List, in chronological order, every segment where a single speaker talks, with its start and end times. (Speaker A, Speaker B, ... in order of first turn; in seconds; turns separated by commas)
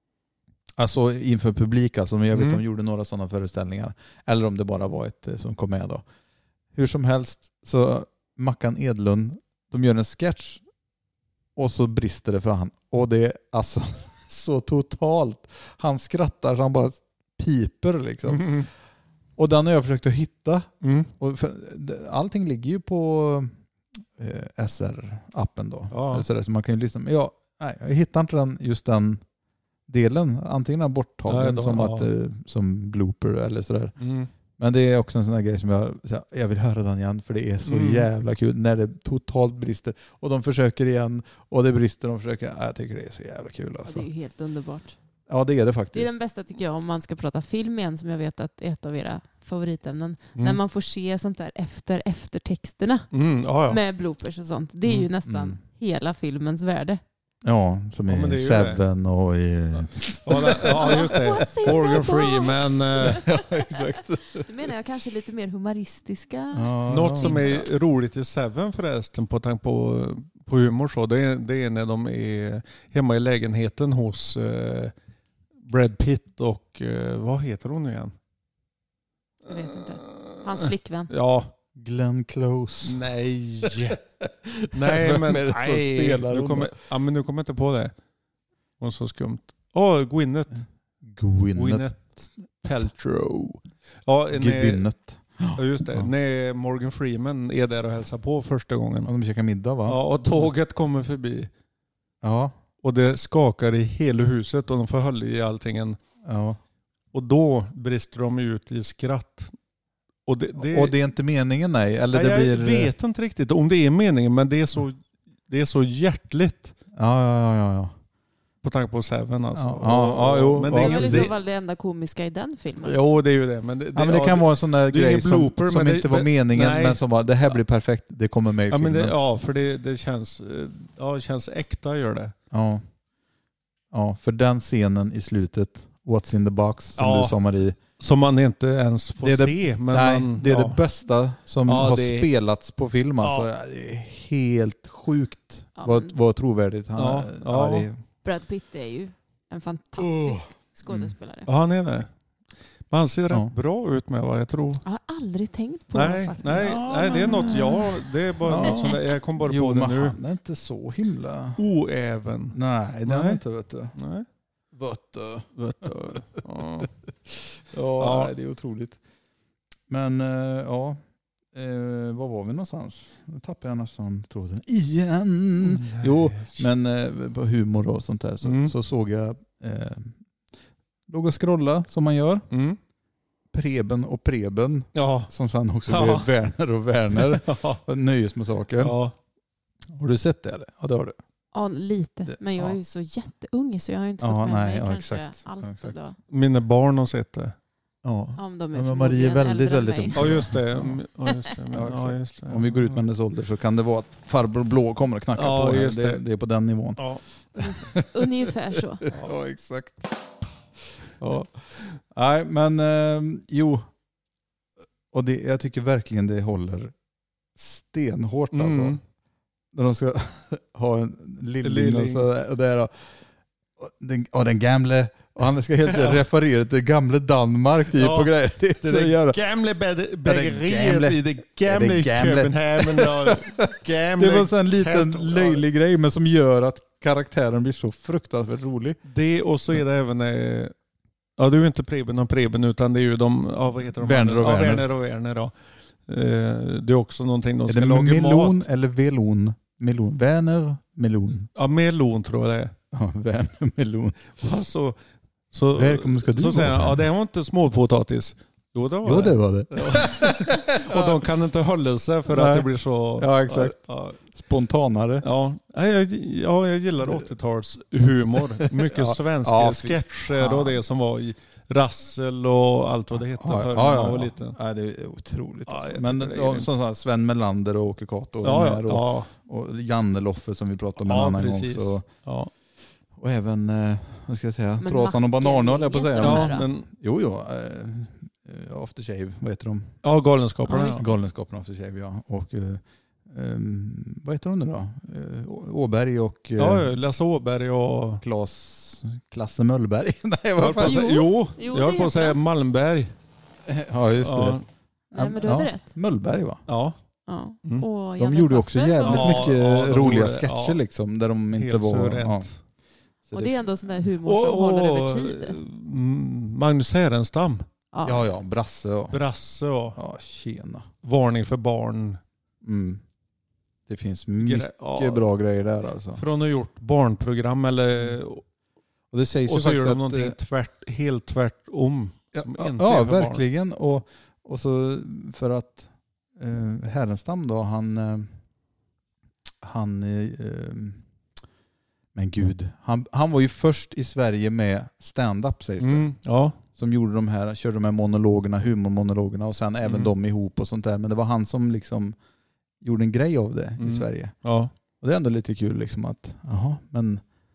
Speaker A: 0.8-6.0, Speaker B: 2.3-2.6, Speaker A: 6.7-10.6, Speaker A: 11.6-18.6, Speaker B: 18.2-18.7, Speaker A: 19.4-23.5, Speaker B: 20.8-21.1, Speaker A: 24.2-29.2, Speaker B: 25.9-26.2, Speaker A: 29.9-33.9, Speaker B: 31.3-32.1, Speaker B: 34.0-34.3, Speaker A: 34.6-44.1, Speaker B: 37.6-38.1, Speaker C: 43.8-45.0, Speaker A: 45.3-46.1, Speaker C: 45.9-53.1, Speaker B: 53.1-53.8, Speaker C: 53.7-57.0, Speaker A: 55.2-55.6, Speaker A: 57.4-61.7, Speaker B: 58.1-58.8, Speaker B: 60.2-63.2, Speaker C: 60.4-67.6, Speaker A: 63.0-64.5, Speaker A: 66.5-67.5, Speaker B: 66.9-74.9, Speaker B: 75.6-78.1, Speaker C: 79.5-81.1, Speaker B: 79.5-81.5, Speaker A: 81.7-83.0, Speaker B: 82.8-84.0, Speaker A: 83.6-86.7, Speaker B: 84.7-87.9, Speaker B: 88.8-90.6, Speaker A: 91.1-91.8, Speaker B: 91.5-94.8, Speaker A: 94.3-96.1, Speaker B: 95.5-99.1, Speaker A: 99.0-100.5, Speaker B: 99.8-101.5, Speaker A: 102.2-102.5, Speaker B: 102.8-106.0, Speaker A: 106.2-106.6, Speaker B: 107.1-109.5, Speaker B: 110.2-110.9, Speaker A: 110.5-112.9, Speaker B: 112.1-116.7, Speaker A: 116.9-117.9, Speaker B: 118.6-121.3, Speaker A: 119.5-121.3, Speaker C: 120.7-123.0, Speaker B: 122.8-127.5, Speaker A: 123.9-129.2, Speaker B: 128.7-132.3, Speaker A: 132.5-132.8, Speaker A: 133.9-137.8, Speaker B: 137.0-137.3, Speaker B: 138.0-140.8, Speaker A: 139.2-148.0, Speaker B: 141.7-142.3, Speaker B: 143.2-143.5, Speaker C: 145.8-146.1, Speaker B: 147.0-147.9, Speaker C: 148.2-151.5, Speaker A: 150.0-151.1, Speaker B: 151.4-152.1, Speaker B: 152.9-154.8, Speaker C: 154.8-157.6, Speaker B: 155.9-160.2, Speaker A: 156.6-157.9, Speaker A: 158.4-161.6, Speaker B: 161.6-163.4, Speaker A: 162.5-163.9, Speaker B: 163.9-164.2, Speaker A: 164.7-165.9, Speaker B: 165.6-166.9, Speaker A: 167.6-169.0, Speaker B: 168.0-168.3, Speaker A: 169.9-171.0, Speaker A: 171.5-180.2, Speaker B: 175.6-176.6, Speaker B: 178.4-178.7, Speaker A: 181.1-182.5, Speaker B: 182.5-182.8, Speaker A: 183.5-189.0, Speaker B: 184.9-185.3, Speaker B: 185.9-186.3, Speaker B: 187.1-187.8, Speaker B: 188.8-189.1, Speaker A: 189.9-191.2, Speaker C: 191.5-196.2, Speaker A: 192.3-192.8, Speaker A: 194.2-196.0, Speaker B: 196.3-197.5, Speaker A: 198.0-201.0, Speaker C: 198.3-200.4, Speaker B: 200.1-203.0, Speaker A: 201.7-208.5, Speaker B: 205.3-206.2, Speaker C: 207.6-209.1, Speaker A: 209.0-210.2, Speaker A: 211.2-213.9, Speaker A: 215.1-216.9, Speaker A: 217.5-219.0, Speaker B: 218.5-219.0, Speaker A: 219.7-223.1, Speaker B: 221.6-222.3, Speaker A: 223.8-229.4, Speaker B: 225.9-226.2, Speaker B: 227.9-235.6, Speaker A: 230.2-239.0, Speaker B: 239.1-240.7, Speaker B: 241.4-245.5, Speaker A: 244.0-244.9, Speaker B: 246.1-248.6, Speaker A: 247.7-251.5, Speaker B: 251.5-252.7, Speaker A: 252.9-254.2, Speaker B: 254.3-255.0, Speaker B: 255.5-264.2, Speaker A: 255.7-257.0, Speaker A: 259.0-261.2, Speaker A: 262.3-263.8, Speaker A: 264.3-265.2, Speaker B: 265.2-274.6, Speaker A: 268.6-270.8, Speaker A: 273.1-282.0, Speaker B: 275.7-276.7, Speaker B: 278.4-279.3, Speaker B: 281.0-282.5, Speaker A: 283.1-289.9, Speaker C: 284.8-286.6, Speaker B: 286.2-286.9, Speaker B: 290.0-291.1, Speaker C: 290.6-291.0, Speaker A: 290.9-296.9, Speaker B: 296.6-298.2, Speaker A: 298.2-301.3, Speaker B: 300.6-303.1, Speaker C: 300.8-302.4, Speaker A: 303.6-304.6, Speaker B: 304.2-304.6, Speaker C: 305.1-305.9, Speaker A: 305.1-306.6, Speaker B: 306.7-306.9, Speaker C: 307.3-309.5, Speaker A: 308.2-312.5, Speaker B: 309.0-310.8, Speaker B: 311.5-312.6, Speaker A: 313.3-313.6, Speaker C: 313.3-315.6, Speaker B: 314.2-317.6, Speaker C: 317.9-318.2, Speaker A: 318.0-319.2, Speaker B: 319.1-320.0, Speaker A: 319.9-320.9, Speaker B: 321.0-322.2, Speaker A: 322.6-323.0, Speaker A: 323.9-326.2, Speaker B: 324.4-325.2, Speaker B: 326.1-328.4, Speaker A: 329.1-330.4, Speaker B: 329.4-333.4, Speaker A: 332.3-338.3, Speaker A: 339.6-341.0, Speaker A: 342.1-346.1, Speaker B: 345.8-346.6, Speaker A: 346.7-352.1, Speaker B: 349.8-350.1, Speaker A: 352.8-354.3, Speaker B: 353.8-354.7, Speaker A: 355.0-357.2